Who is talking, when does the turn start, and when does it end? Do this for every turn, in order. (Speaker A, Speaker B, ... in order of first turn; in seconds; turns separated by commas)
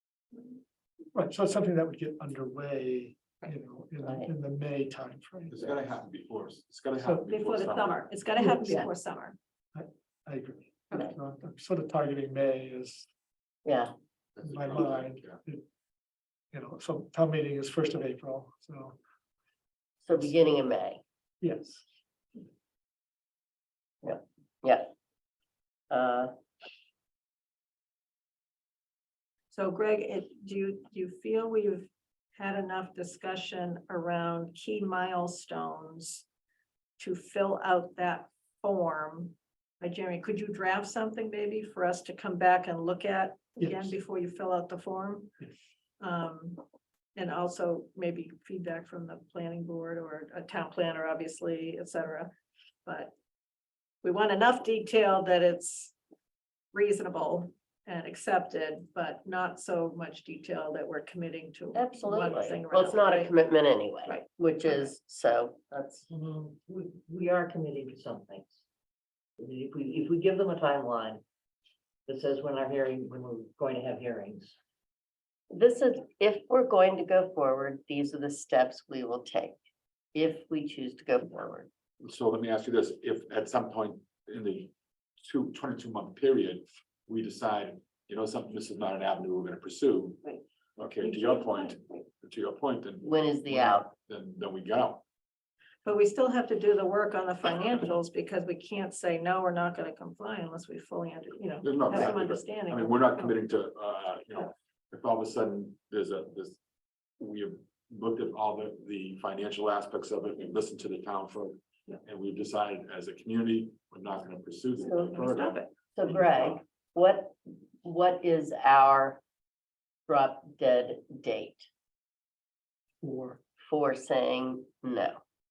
Speaker A: 1.1-5.7, Speaker B: 4.0-4.3, Speaker C: 5.5-8.1, Speaker A: 7.0-7.3, Speaker D: 7.3-9.4, Speaker B: 8.4-8.9, Speaker A: 9.8-13.1, Speaker B: 13.7-13.9, Speaker C: 14.4-15.4, Speaker A: 14.5-15.6, Speaker A: 16.5-19.0, Speaker B: 20.0-21.0, Speaker A: 21.4-21.8, Speaker B: 24.0-24.9, Speaker B: 25.9-26.3, Speaker D: 29.5-36.2, Speaker D: 37.0-45.3, Speaker A: 43.6-43.9, Speaker D: 46.0-46.6, Speaker D: 47.1-52.3, Speaker D: 52.8-53.1, Speaker D: 54.0-55.9, Speaker D: 56.7-63.3, Speaker B: 61.8-66.1, Speaker D: 64.1-64.9, Speaker E: 66.1-68.6, Speaker E: 69.4-71.2, Speaker E: 72.1-74.5, Speaker B: 75.5-79.6, Speaker B: 80.2-81.7, Speaker C: 82.0-90.2, Speaker C: 90.8-95.0, Speaker D: 91.0-91.8, Speaker B: 93.0-93.9, Speaker D: 95.8-103.4, Speaker C: 101.6-106.6, Speaker C: 107.2-115.6, Speaker B: 114.8-115.4, Speaker D: 115.2-115.6, Speaker B: 115.9-119.2, Speaker B: 120.1-121.7, Speaker A: 123.0-123.4, Speaker B: 123.7-125.2